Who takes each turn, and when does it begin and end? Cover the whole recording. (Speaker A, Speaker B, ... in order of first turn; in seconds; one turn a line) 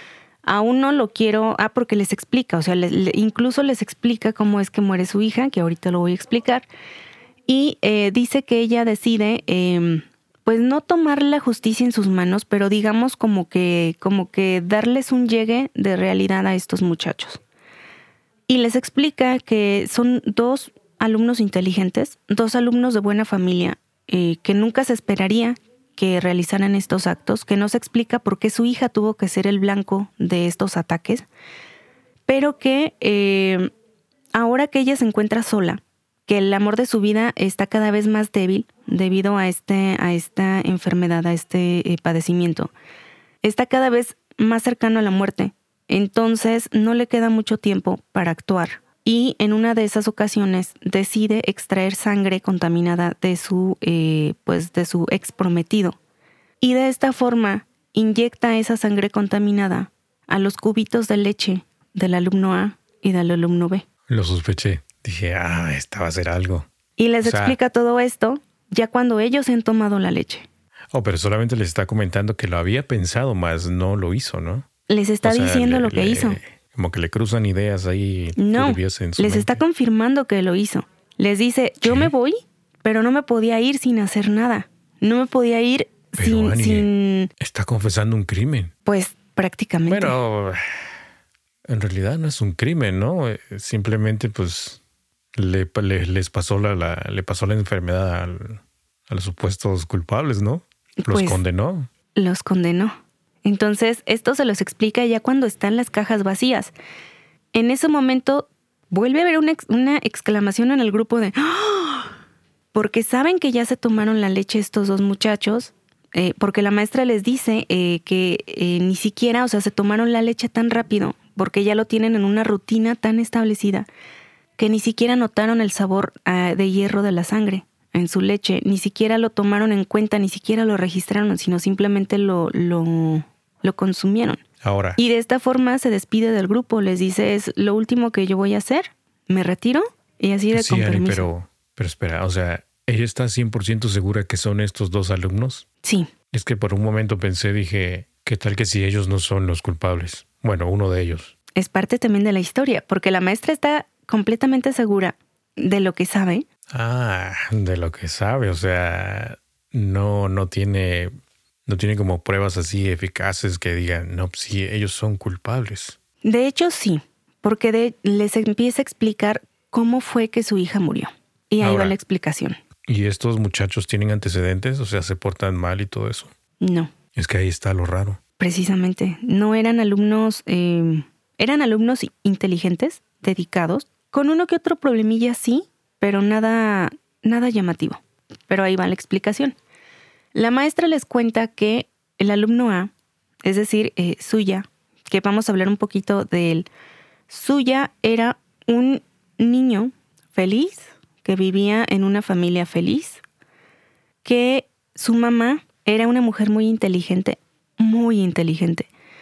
Speaker A: 0.4-6.7
Speaker A: 7.5-17.4
Speaker A: 18.5-31.3
Speaker A: 32.3-33.7
Speaker A: 34.3-42.7
Speaker A: 43.4-56.0
Speaker A: 56.6-63.9
Speaker B: 64.1-66.7
Speaker A: 67.0-70.5
Speaker B: 67.2-67.6
Speaker B: 70.9-74.7
Speaker A: 74.9-76.4
Speaker B: 75.2-79.6
Speaker A: 78.4-87.3
Speaker B: 81.8-82.1
Speaker B: 86.2-88.7
Speaker A: 88.8-90.2
Speaker B: 89.9-90.7
Speaker B: 91.7-94.8
Speaker B: 95.3-101.9
Speaker A: 101.0-101.4
Speaker A: 102.2-102.9
Speaker A: 103.5-106.7
Speaker A: 107.5-112.1
Speaker A: 112.7-123.9
Speaker A: 124.6-134.4
Speaker B: 134.6-135.0
Speaker A: 135.0-141.3
Speaker B: 140.5-145.7
Speaker A: 145.8-146.1
Speaker B: 146.3-151.3
Speaker A: 151.6-156.5
Speaker B: 156.7-161.1
Speaker B: 161.7-166.0
Speaker A: 166.2-172.6
Speaker B: 171.6-171.9
Speaker B: 172.9-176.3
Speaker A: 176.6-176.9
Speaker B: 177.1-178.2
Speaker A: 178.4-189.6
Speaker A: 190.3-192.9
Speaker A: 193.4-196.7
Speaker A: 197.3-203.2
Speaker A: 204.2-208.9